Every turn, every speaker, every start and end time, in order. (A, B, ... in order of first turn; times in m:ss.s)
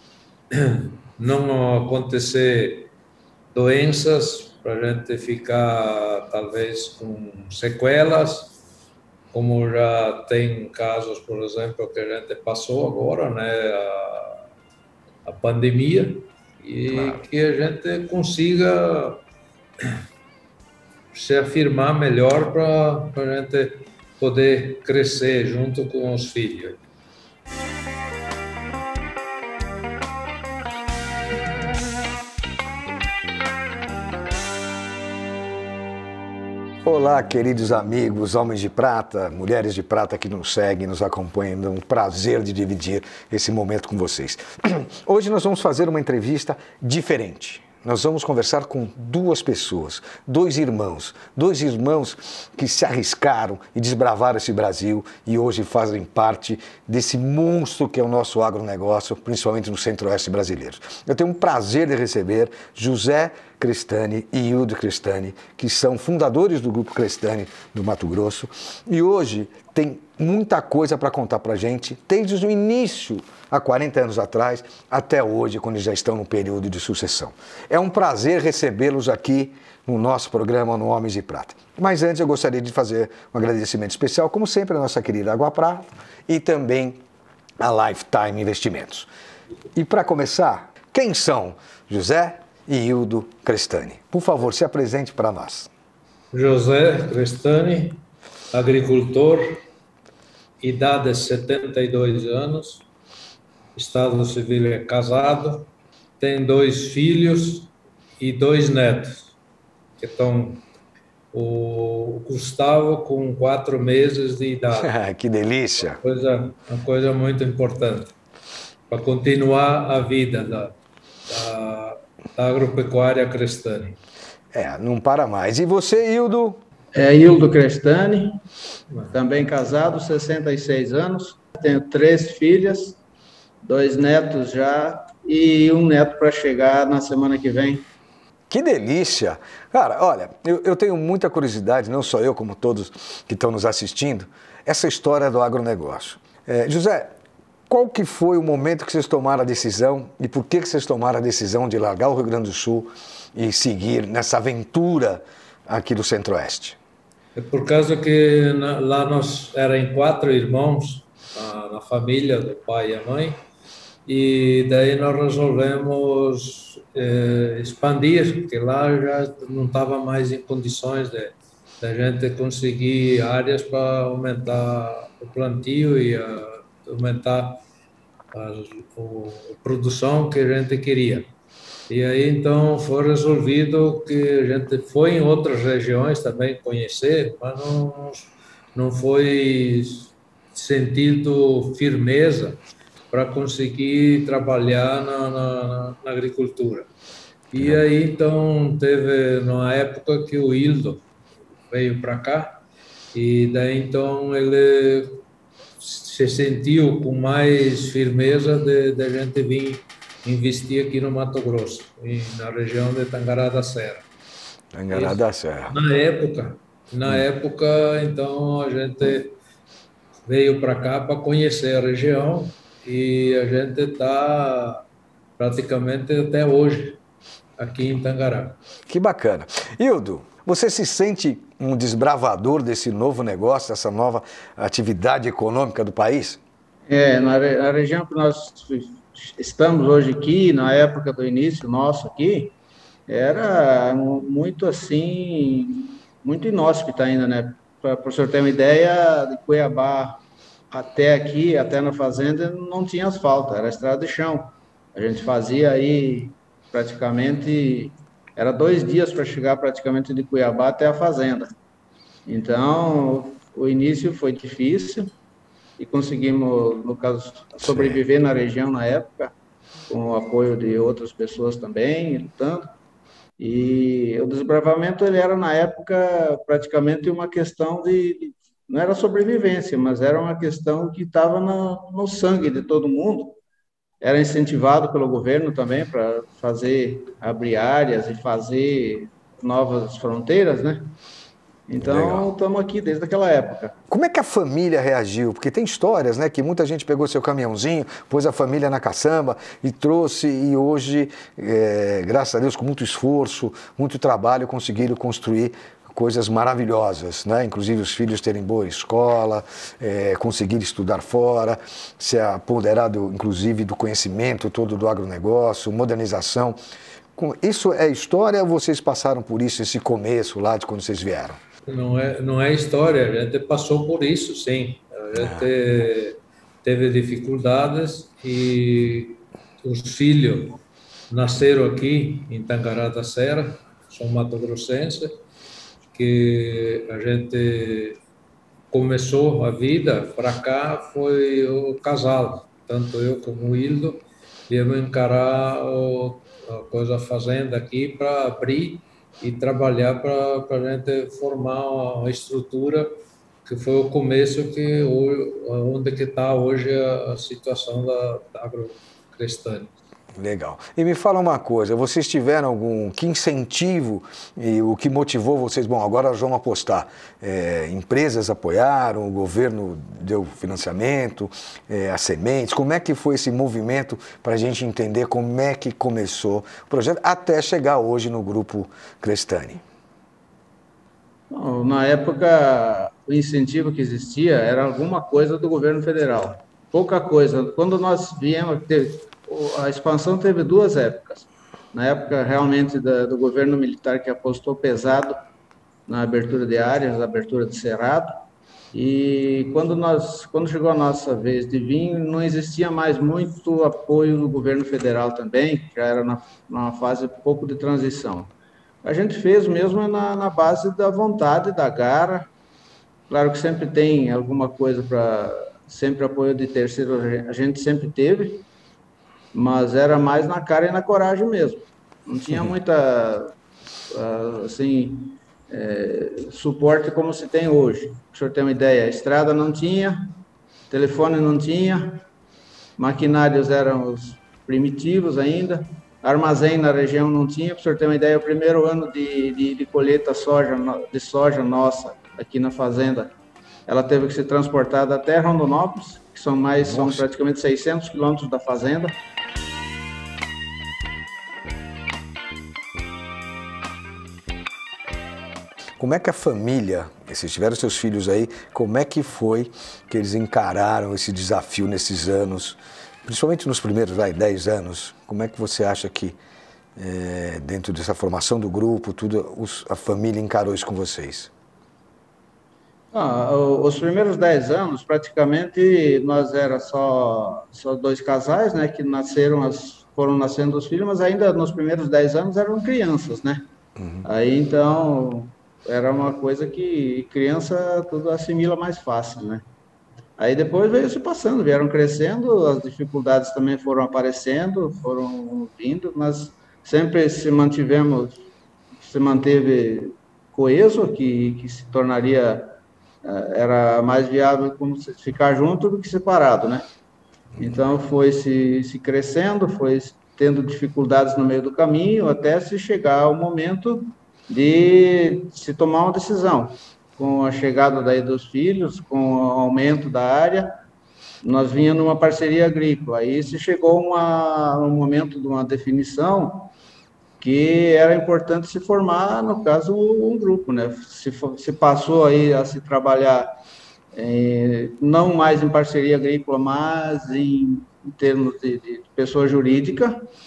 0:00.6-0:02.9 A
0:03.5-0:08.6 A
0:09.3-0:14.4 A
0:15.2-0:19.2 A
0:16.9-0:17.2 B
0:21.1-0:26.8 A
0:36.8-1:27.0 B
1:27.6-1:29.1 B
1:29.8-1:35.7 B
1:36.3-1:39.5 A
1:40.6-1:42.9 A
1:43.8-1:49.1 A
1:50.0-1:50.6 A
1:51.3-1:54.9 A
1:54.8-1:56.0 B
1:55.8-1:58.1 A
1:58.9-2:00.8 A
2:01.3-2:04.0 A
2:04.5-2:06.6 B
2:06.9-2:08.3 C
2:09.1-2:13.0 C
2:13.6-2:17.9 C
2:18.5-2:27.1 B
2:27.7-2:36.8 B
2:37.4-2:43.4 A
2:44.1-2:57.6 A
2:58.3-3:01.3 A
3:01.9-3:12.6 A
3:13.1-3:16.9 A
3:17.5-3:21.0 A
3:21.7-3:22.6 A
3:23.1-3:25.2 A
3:25.8-3:34.0 A
3:34.7-3:35.8 B
3:34.9-3:35.2 A
3:35.7-3:39.4 A
3:40.3-3:44.8 A
3:45.4-3:47.0 A
3:47.6-3:48.6 A
3:48.9-3:56.4 B
3:56.9-4:02.6 C
4:03.1-4:10.2 C
4:10.7-4:21.5 C
4:22.3-4:25.1 C
4:25.8-4:29.3 C
4:27.6-4:28.0 B
4:29.9-4:32.6 C
4:33.4-4:43.4 C
4:44.0-4:50.9 C
4:51.7-4:53.7 C
4:51.8-4:52.3 B
4:53.9-5:16.6 B
5:17.2-5:21.4 B
5:21.7-5:30.6 A
5:25.2-5:25.5 B
5:31.1-5:35.1 A
5:35.9-5:38.0 A
5:38.7-5:52.9 A
5:53.4-5:59.7 A
6:00.2-6:19.6 B
6:21.3-6:35.1 C
6:35.9-6:38.1 C
6:38.7-6:48.3 C
6:48.8-6:52.3 C
6:53.1-6:58.5 C
6:59.3-7:03.3 C
7:03.9-7:10.1 C
7:10.7-7:12.0 C
7:12.8-7:23.1 C
7:23.7-7:28.9 C
7:26.6-7:27.0 B
7:35.8-7:46.2 B
7:46.8-7:51.3 B
7:52.9-8:03.4 C
8:03.8-8:04.0 B
8:04.0-8:09.4 C
8:10.2-8:18.2 C
8:18.8-8:26.6 C
8:27.4-8:40.5 C
8:41.2-8:46.5 C
8:47.2-8:53.3 C
8:53.9-9:00.1 C